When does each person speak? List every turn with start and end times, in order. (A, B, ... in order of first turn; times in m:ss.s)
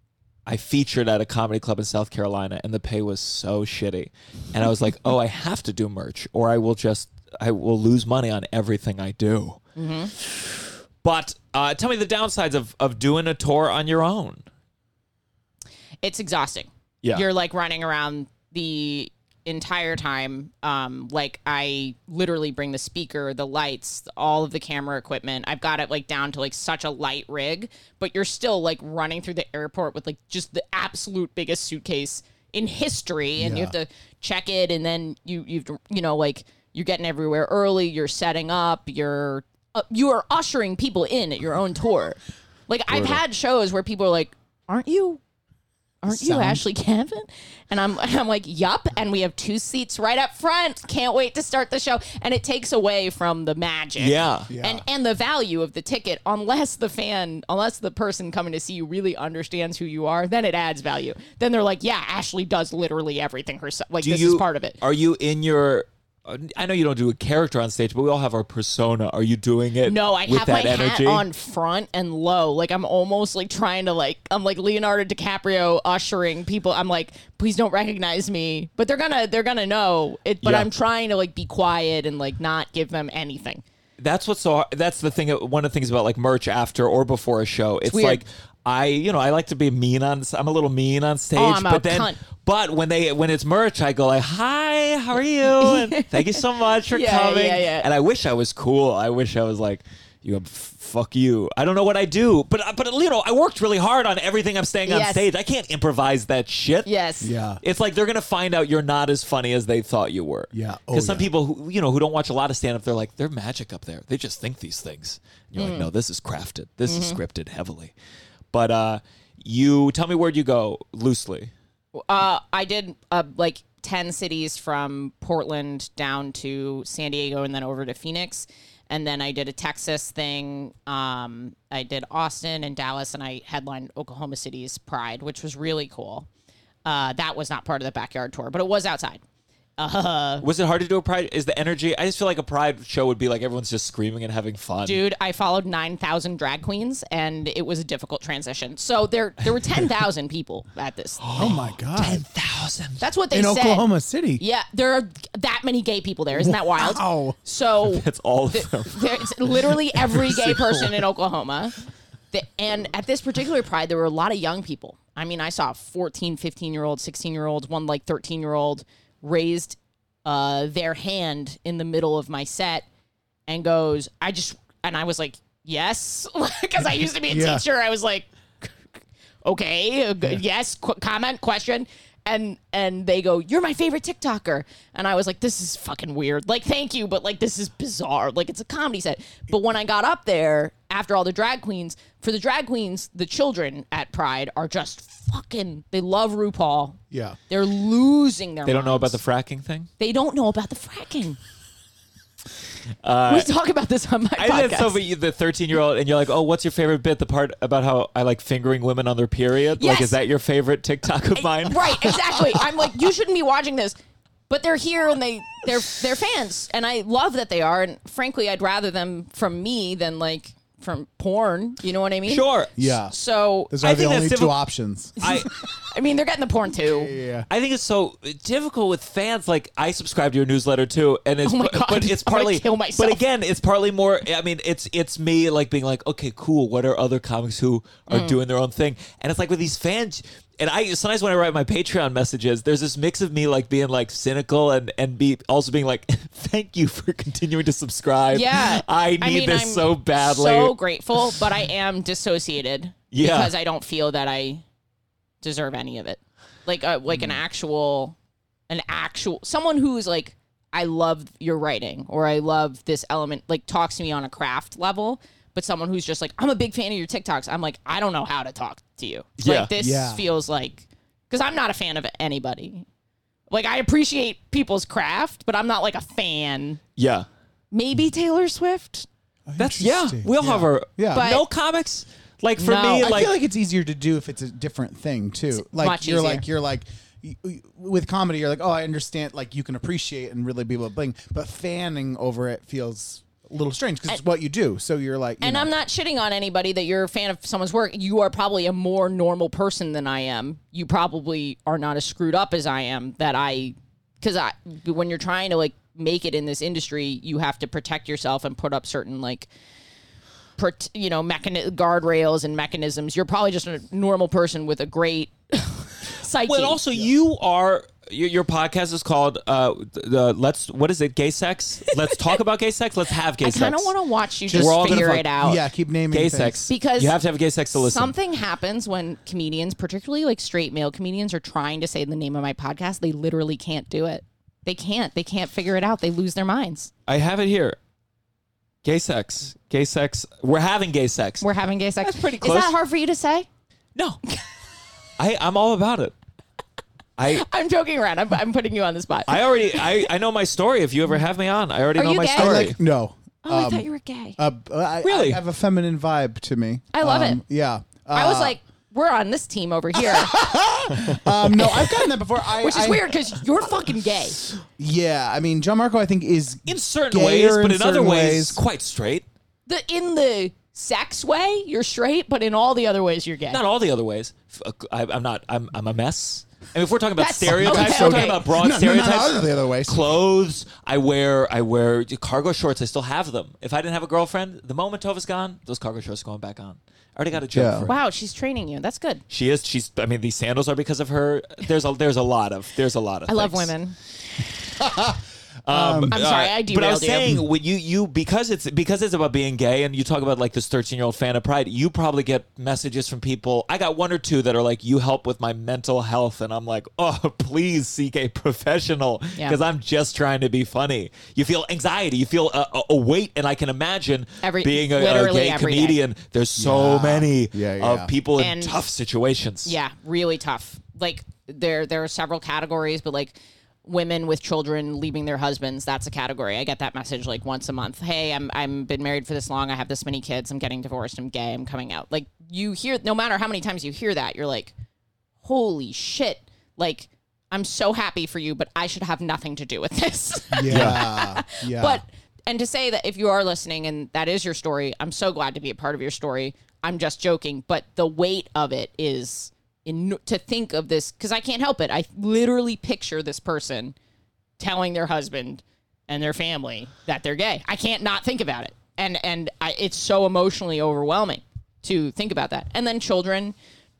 0:00.5-0:09.6 A
0:09.8-0:10.1 B
0:10.1-0:14.4 A
0:16.0-0:45.2 B
0:33.4-0:33.7 C
0:46.0-1:04.8 B
0:46.1-0:46.6 C
0:54.0-0:54.5 A
0:54.5-0:54.8 C
1:04.0-1:11.2 A
1:09.8-1:23.6 B
1:20.4-1:20.7 A
1:24.0-1:46.9 A
1:27.9-1:28.2 B
1:31.4-1:32.2 B
1:35.5-1:37.9 B
1:44.9-1:45.2 B
1:46.9-1:47.3 B
1:47.2-1:47.6 C
1:47.6-1:57.9 A
1:50.5-1:51.3 C
1:55.6-1:55.9 B
1:56.9-1:57.2 B
1:58.5-2:01.5 A
2:02.0-2:16.3 B
2:16.8-2:19.2 B
2:19.8-2:20.4 B
2:20.4-2:25.0 A
2:24.8-2:31.4 B
2:31.2-2:33.0 A
2:31.4-2:32.2 C
2:33.0-2:41.8 B
2:33.3-2:34.4 C
2:36.3-2:37.4 C
2:37.9-2:39.7 A
2:42.3-2:52.9 B
2:53.5-2:58.7 B
2:57.3-2:57.6 C
2:59.4-3:19.2 B
3:17.1-3:17.4 C
3:18.6-3:19.9 A
3:20.0-3:21.4 B
3:23.0-3:23.5 A
3:23.3-3:25.0 B
3:24.4-3:32.6 A
3:29.8-3:30.2 B
3:31.4-3:34.0 B
3:34.5-3:42.5 B
3:42.3-3:42.7 A
3:42.8-3:43.1 C
3:43.1-3:43.7 B
3:43.7-3:45.2 C
3:43.8-3:44.6 A
3:45.2-3:45.5 A
3:45.2-3:47.1 B
3:46.9-3:47.5 C
3:47.5-4:10.7 A
3:51.4-3:53.2 B
3:58.1-3:58.4 B
4:08.3-4:14.6 B
4:13.1-4:13.5 A
4:15.4-4:18.1 B
4:18.7-4:32.8 B
4:29.4-4:29.7 A
4:29.8-4:30.2 C
4:33.5-4:36.8 B
4:37.0-4:37.3 A
4:37.7-4:39.1 B
4:39.5-4:41.3 C
4:39.6-4:43.3 A
4:41.1-4:41.4 B
4:42.6-4:43.2 B
4:43.0-4:55.7 C
4:45.6-4:46.4 B
4:55.4-5:09.5 B
5:10.6-5:16.8 B
5:16.4-5:23.9 A
5:23.4-5:25.6 B
5:24.5-5:26.6 C
5:24.5-5:25.3 A
5:26.1-5:28.1 A
5:26.7-5:27.2 B
5:27.7-5:36.9 B
5:37.1-5:37.8 A
5:38.8-5:41.4 A
5:41.4-5:43.5 B
5:42.0-5:42.8 A
5:43.9-5:44.2 A
5:45.2-5:46.1 A
5:47.2-5:47.4 A
5:47.3-5:49.9 B
5:49.3-5:52.8 A
5:52.0-5:52.7 B
5:52.4-5:58.6 C
5:53.4-5:54.4 B
5:55.0-5:55.4 A
5:56.9-5:57.4 B
5:58.1-6:00.6 B
6:00.0-6:03.2 C
6:01.6-6:04.4 B
6:04.8-6:08.6 C
6:06.6-6:09.2 A
6:09.6-6:13.6 B
6:13.5-6:28.0 A
6:17.2-6:18.5 B
6:17.5-6:20.1 C
6:27.5-6:27.9 C
6:27.9-6:29.2 B
6:29.3-6:33.7 A
6:33.3-6:34.0 B
6:34.8-6:35.1 C
6:35.6-6:59.7 A
6:35.7-6:36.2 C
6:36.1-6:37.4 B
6:54.4-6:56.0 B
6:56.6-6:58.1 C
6:58.4-6:58.8 B
6:59.6-7:14.7 B
7:15.4-7:33.9 B
7:20.5-7:22.0 C
7:20.7-7:21.0 A
7:34.6-7:43.6 B